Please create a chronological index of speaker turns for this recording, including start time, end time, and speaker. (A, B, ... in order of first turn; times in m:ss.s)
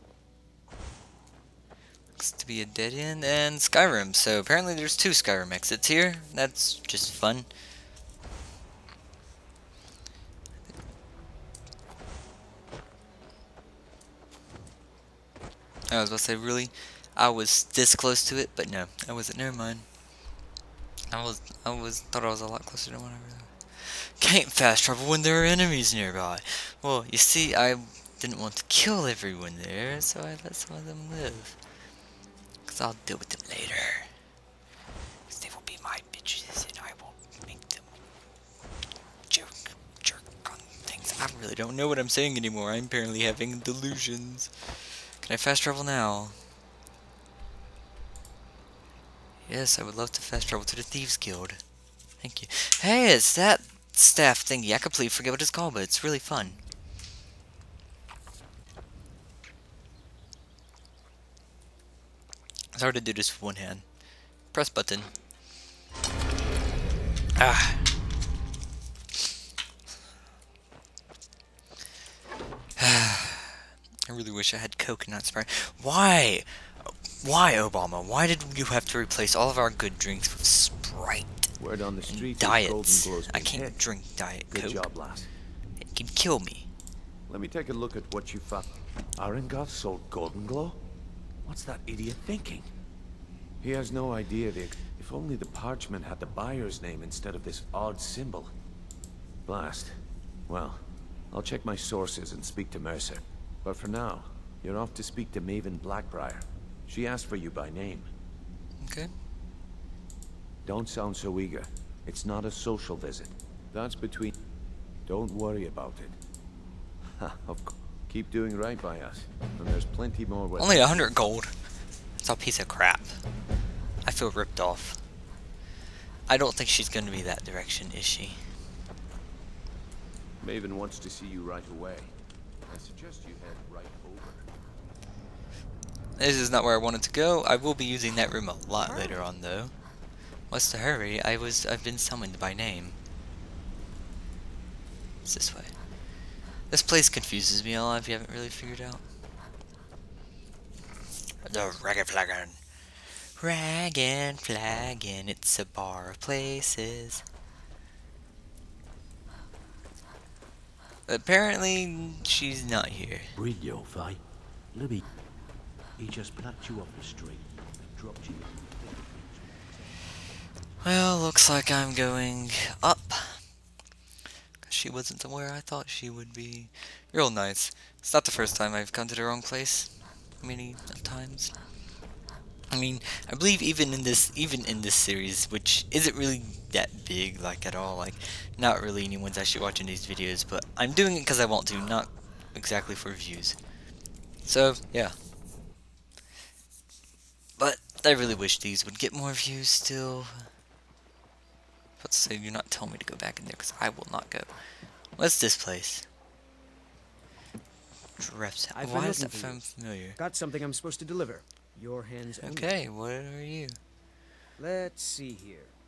0:02.2-0:07.5 A
0:15.9-0:19.9 A
0:21.1-0:31.6 A
0:32.6-0:34.1 A
0:35.3-0:37.8 A
0:39.3-0:46.4 A
0:49.4-0:51.6 A
0:52.2-0:56.6 A
1:02.7-1:03.8 A
1:04.5-1:05.1 A
1:07.4-1:07.8 A
1:12.8-1:21.5 A
1:21.6-1:23.9 B
1:22.1-1:24.9 A
1:24.5-1:25.3 B
1:25.8-1:26.7 A
1:27.3-1:30.8 B
1:31.4-1:32.7 B
1:33.6-1:38.5 B
1:39.4-1:48.1 B
1:48.8-1:49.1 A
1:50.6-1:54.3 B
1:55.0-1:56.2 B
1:57.1-2:01.2 B
2:00.6-2:01.6 A
2:02.2-2:03.2 A
2:04.0-2:05.0 A
2:06.3-2:08.4 A
2:10.4-2:12.1 B
2:12.6-2:14.5 B
2:16.2-2:19.7 A
2:20.5-2:23.0 A
2:25.2-2:25.7 A
2:26.7-2:29.0 A
2:31.4-2:32.6 A
2:33.4-2:37.2 A
2:41.1-2:43.3 A
2:43.3-2:44.2 C
2:44.7-2:45.1 C
2:46.0-2:49.8 C
2:50.8-2:53.4 A
2:54.6-3:01.5 A
3:02.7-3:13.6 A
3:14.4-3:15.2 A
3:17.6-3:20.4 A
3:22.0-3:24.5 A
3:25.2-3:26.0 A
3:28.2-3:30.2 A
3:28.7-3:29.6 D
3:30.2-3:32.7 D
3:32.4-3:33.8 A
3:34.6-3:35.7 D